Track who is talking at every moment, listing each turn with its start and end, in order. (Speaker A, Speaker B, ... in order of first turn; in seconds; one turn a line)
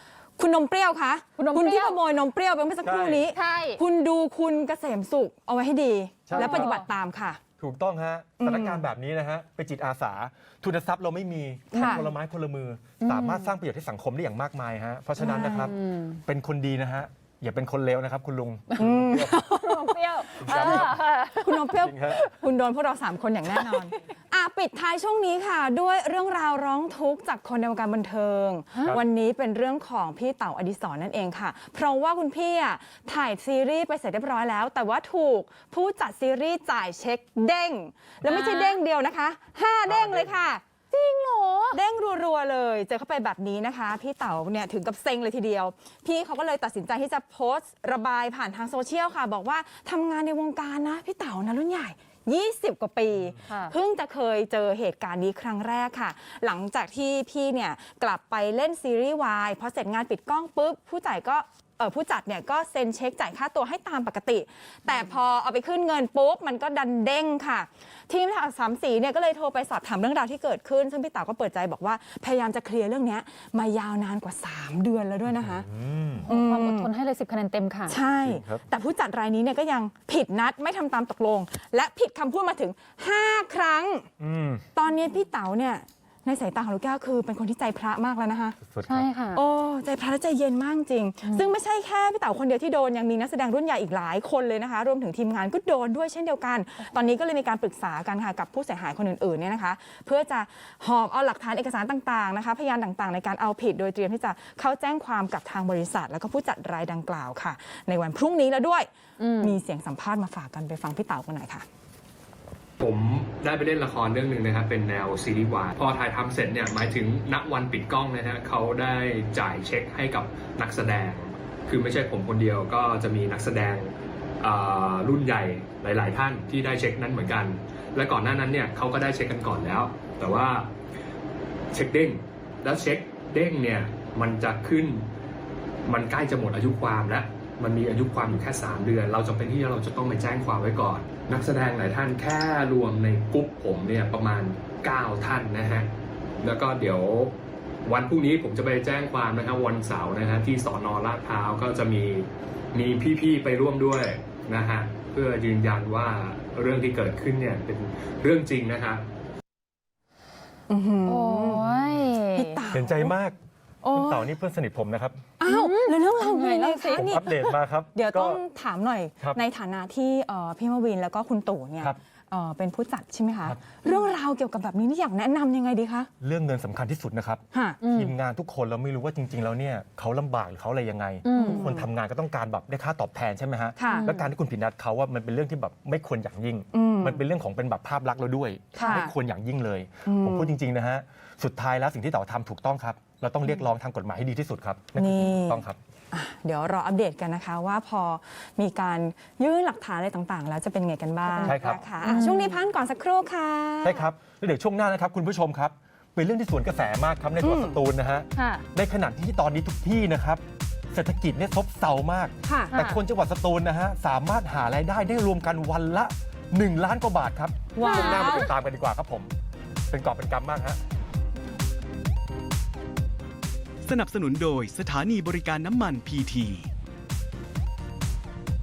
Speaker A: 0.4-7.4
Speaker B: 1.4-2.0
Speaker C: 2.8-3.2
Speaker B: 3.3-3.8
Speaker C: 6.3-6.8
Speaker B: 6.3-6.9
Speaker C: 7.6-19.5
Speaker A: 8.4-8.8
Speaker A: 11.7-12.1
Speaker B: 13.0-13.5
Speaker A: 15.2-15.7
Speaker B: 15.4-16.2
Speaker A: 18.8-40.6
Speaker B: 19.5-21.7
Speaker C: 20.4-21.1
Speaker C: 21.6-22.2
Speaker B: 38.2-38.8
Speaker C: 39.9-40.4
Speaker B: 40.9-41.8
Speaker A: 41.7-75.7
Speaker B: 53.5-53.8
Speaker C: 75.3-76.3
Speaker B: 76.3-78.0
Speaker A: 76.3-76.9
Speaker A: 77.9-84.1
Speaker C: 78.2-78.6
Speaker C: 84.2-84.6
Speaker A: 84.8-88.6
Speaker C: 88.6-89.1
Speaker B: 88.9-89.4
Speaker A: 89.3-108.9
Speaker B: 91.2-91.5
Speaker B: 109.2-109.6
Speaker A: 109.4-111.7
Speaker D: 112.8-130.7
Speaker D: 131.7-135.1
Speaker D: 135.9-145.9
Speaker D: 146.4-147.3
Speaker D: 147.9-159.0
Speaker A: 160.7-161.7
Speaker B: 161.1-162.6
Speaker A: 162.3-163.1
Speaker C: 162.7-163.4
Speaker A: 163.8-164.3
Speaker C: 163.9-165.2
Speaker A: 165.4-176.1
Speaker B: 165.4-167.1
Speaker C: 167.0-168.4
Speaker C: 176.2-195.8
Speaker A: 177.5-177.8
Speaker B: 177.8-178.1
Speaker B: 181.2-181.6
Speaker A: 181.3-181.9
Speaker A: 183.8-184.1
Speaker B: 183.8-184.3
Speaker A: 186.7-187.2
Speaker B: 188.8-189.0
Speaker A: 188.8-189.1
Speaker A: 190.1-190.6
Speaker A: 195.0-204.1
Speaker B: 201.2-202.6
Speaker C: 201.5-201.8
Speaker C: 203.8-219.3
Speaker A: 207.4-207.8
Speaker B: 208.3-208.7
Speaker A: 212.4-212.7
Speaker B: 212.7-213.0
Speaker A: 217.8-218.5
Speaker B: 217.8-218.5
Speaker C: 219.9-220.8
Speaker E: 223.8-226.7